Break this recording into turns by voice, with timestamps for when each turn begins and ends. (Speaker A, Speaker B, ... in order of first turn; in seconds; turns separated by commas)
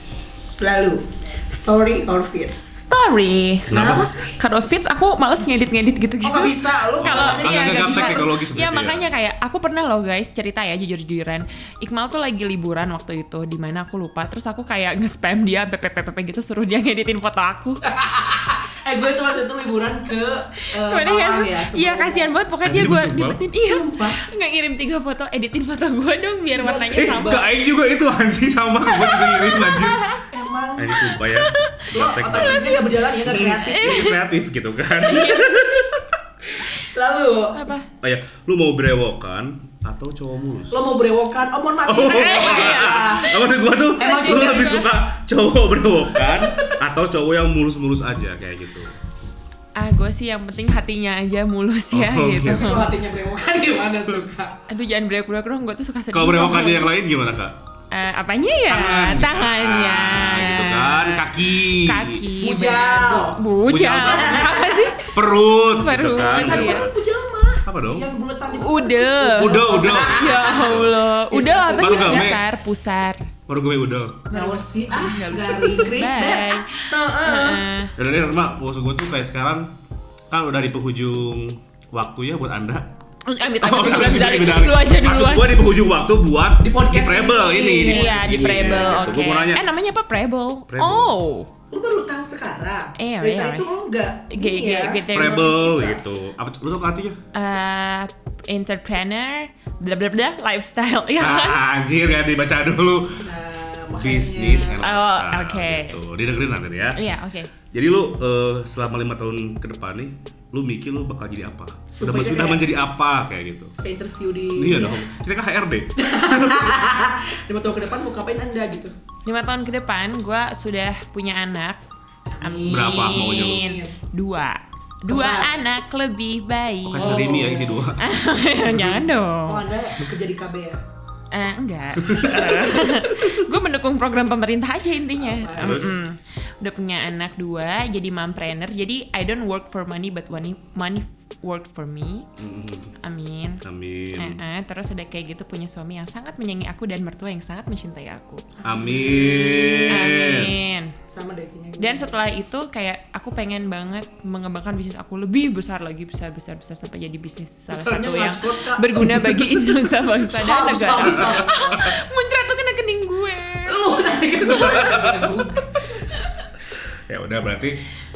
Speaker A: 0.4-2.8, Speaker B: 2.8-17.8, Speaker C: 3.7-4.0, Speaker A: 3.7-4.4, Speaker A: 6.2-8.3, Speaker C: 7.0-9.1, Speaker A: 17.8-22.3, Speaker B: 20.8-27.4, Speaker C: 22.6-23.4, Speaker A: 23.6-24.2, Speaker A: 26.6-27.5, Speaker C: 26.9-30.0, Speaker B: 28.9-30.2, Speaker A: 30.3-31.2, Speaker C: 30.8-36.2, Speaker B: 31.1-31.8, Speaker A: 31.9-34.2, Speaker B: 32.4-32.8, Speaker B: 33.7-34.2, Speaker B: 34.9-35.9, Speaker A: 36.8-37.7, Speaker B: 37.5-37.9, Speaker C: 38.0-41.0, Speaker A: 40.7-43.3, Speaker C: 41.9-48.9, Speaker B: 42.1-43.5, Speaker B: 44.0-44.9, Speaker A: 44.0-44.8, Speaker B: 49.8-52.9, Speaker C: 51.9-52.9, Speaker A: 52.5-54.6, Speaker B: 54.7-56.9, Speaker C: 56.1-57.6, Speaker B: 57.9-65.1, Speaker C: 58.7-62.2, Speaker A: 62.4-65.0, Speaker C: 63.6-64.6, Speaker C: 65.1-66.9, Speaker B: 65.6-66.9, Speaker A: 66.0-72.4, Speaker C: 67.6-68.1, Speaker B: 68.5-73.3, Speaker C: 69.4-71.0, Speaker C: 71.8-72.4, Speaker C: 73.5-74.3, Speaker B: 74.3-77.9, Speaker A: 74.3-77.7, Speaker C: 78.0-79.7, Speaker C: 80.3-82.9, Speaker B: 83.2-85.6, Speaker C: 83.6-89.6, Speaker A: 86.6-89.1, Speaker B: 87.8-91.5, Speaker C: 90.7-91.1, Speaker A: 91.7-96.0, Speaker B: 93.0-93.7, Speaker B: 94.3-95.7, Speaker C: 95.1-97.2, Speaker B: 97.3-101.6, Speaker C: 101.2-103.2, Speaker A: 103.2-104.8, Speaker C: 104.0-107.0, Speaker B: 104.8-106.0, Speaker B: 107.0-107.5, Speaker C: 107.7-113.7, Speaker A: 111.9-112.7, Speaker A: 113.8-115.0, Speaker C: 114.5-116.7, Speaker A: 116.0-118.9, Speaker B: 119.2-121.8, Speaker A: 122.4-123.9, Speaker B: 122.4-127.3, Speaker C: 122.6-123.7, Speaker A: 125.1-125.5, Speaker C: 126.9-128.1, Speaker A: 127.0-127.9, Speaker B: 128.0-129.7, Speaker C: 128.6-129.0, Speaker A: 129.4-130.8, Speaker B: 131.3-142.3, Speaker C: 132.0-132.6, Speaker A: 135.2-136.0, Speaker C: 135.5-135.9, Speaker C: 142.4-142.9, Speaker B: 143.0-143.6, Speaker C: 143.6-144.4, Speaker B: 144.2-148.5, Speaker C: 148.6-150.6, Speaker A: 148.7-150.0, Speaker B: 149.1-150.9, Speaker A: 151.1-152.2, Speaker B: 151.8-163.9, Speaker A: 157.7-159.6, Speaker A: 160.2-162.0, Speaker A: 163.7-166.4, Speaker C: 164.5-165.3, Speaker C: 166.9-167.8